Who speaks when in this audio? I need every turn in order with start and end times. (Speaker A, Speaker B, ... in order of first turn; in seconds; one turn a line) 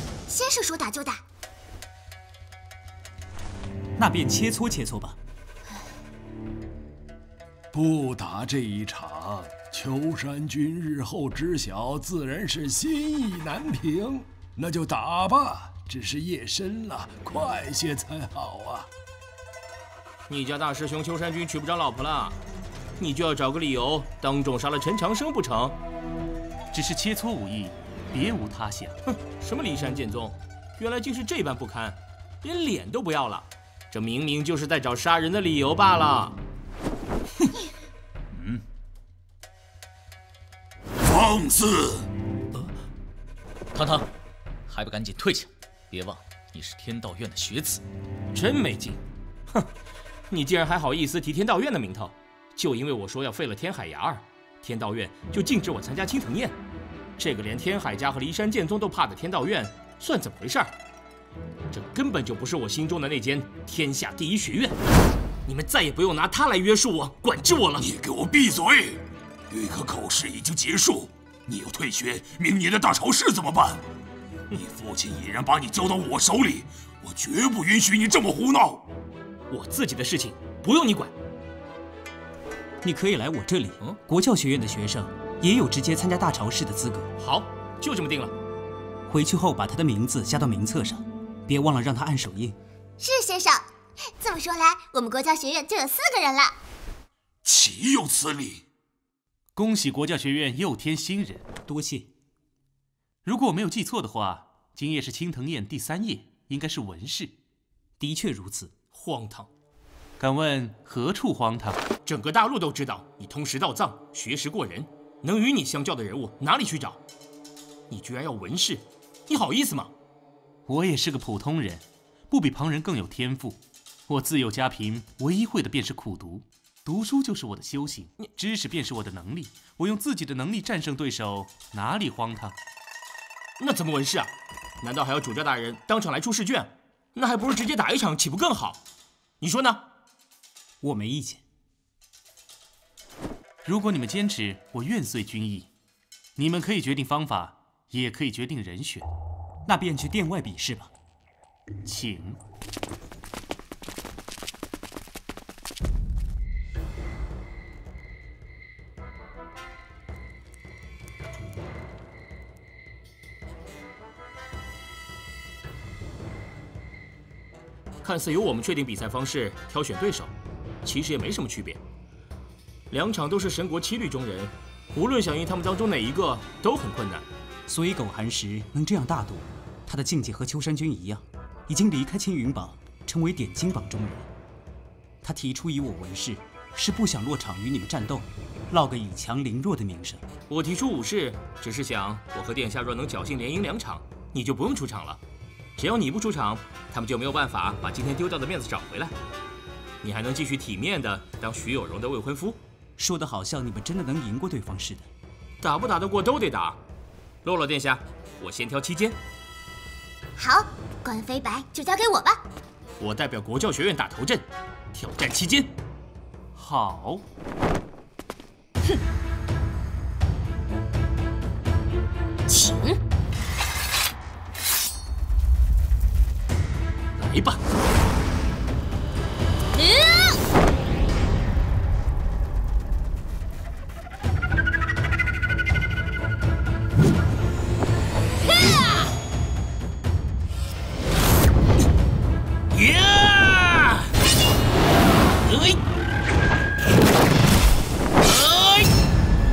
Speaker A: 0.3-1.2
Speaker B: 4.0-5.2
Speaker C: 7.7-18.9
Speaker D: 20.3-22.4
Speaker D: 23.0-25.8
Speaker E: 26.7-29.0
Speaker D: 29.1-36.4
Speaker F: 38.3-38.6
Speaker F: 43.7-44.1
Speaker F: 44.7-47.8
Speaker D: 48.3-49.0
Speaker D: 50.3-56.6
Speaker D: 57.2-60.7
Speaker D: 61.7-64.8
Speaker D: 65.5-68.0
Speaker G: 67.8-69.0
Speaker G: 69.5-73.8
Speaker G: 74.6-78.8
Speaker D: 79.5-81.1
Speaker B: 82.8-87.1
Speaker D: 87.2-88.3
Speaker B: 89.1-92.6
Speaker A: 93.0-96.6
Speaker G: 97.5-98.3
Speaker E: 99.6-101.5
Speaker B: 101.7-102.1
Speaker E: 103.2-107.4
Speaker B: 108.0-108.7
Speaker D: 108.9-109.5
Speaker E: 110.2-111.8
Speaker D: 112.1-117.0
Speaker D: 117.9-119.9
Speaker E: 120.7-132.6
Speaker D: 133.6-138.8
Speaker D: 139.4-139.9
Speaker B: 140.8-141.4
Speaker E: 143.6-145.7
Speaker E: 146.4-149.1
Speaker B: 149.7-150.9
Speaker E: 151.8-152.4
Speaker D: 168.0-171.8
Speaker D: 172.9-177.3
Speaker B: 177.7-184.3
Speaker B: 185.2-190.2
Speaker D: 190.5-195.2
Speaker D: 195.8-199.1
Speaker D: 200.0-202.6
Speaker B: 203.0-205.1
Speaker D: 205.6-206.8
Speaker D: 207.4-209.2
Speaker A: 210.4-212.4
Speaker D: 213.0-215.7
Speaker E: 216.6-217.3
Speaker A: 222.5-223.0
Speaker D: 227.2-227.6
Speaker A: 229.8-230.4
Speaker D: 242.7-243.8